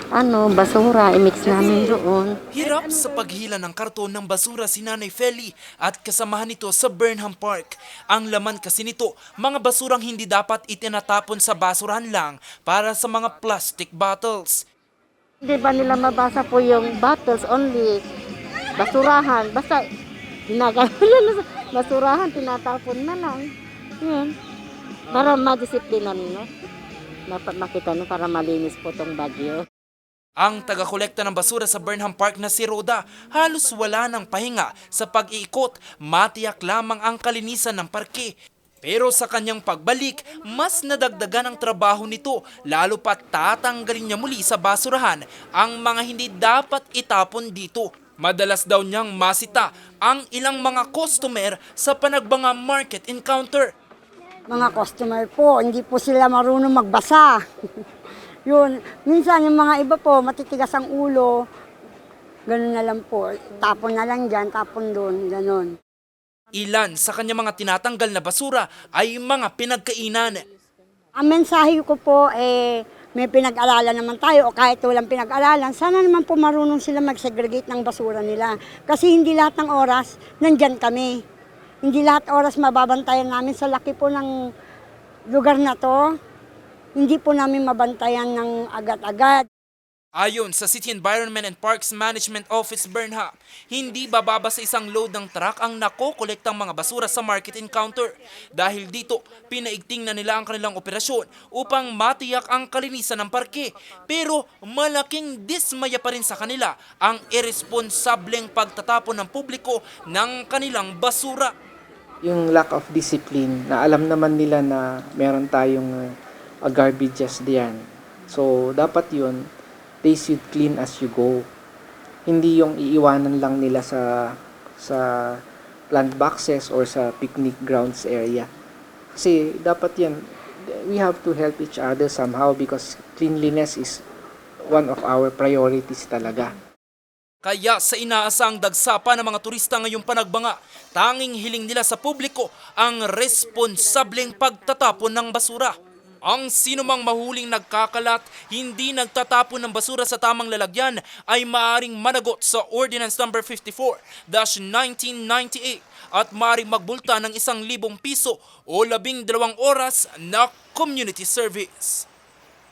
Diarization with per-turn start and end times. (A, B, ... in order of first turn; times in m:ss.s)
0:00.2-0:02.4 A
0:02.5-0:14.7 B
0:15.4-0:18.0 A
0:18.8-0:19.9 A
0:20.5-0:23.5 A
0:24.0-0:24.3 A
0:25.1-0:26.5 A
0:27.3-0:29.6 A
0:30.4-0:53.7 B
0:54.5-0:57.3 C
0:58.5-1:01.3 C
1:02.5-1:05.7 C
1:06.6-1:10.4 B
1:11.2-1:21.1 C
1:21.8-1:24.3 C
1:25.3-1:26.0 C
1:27.0-1:29.5 C
1:30.2-1:51.5 B
1:52.2-1:56.1 D
1:56.6-1:59.4 D
2:00.0-2:01.5 D
2:02.3-2:08.5 D
2:09.1-2:14.0 D
2:14.7-2:16.6 D
2:17.4-2:42.1 B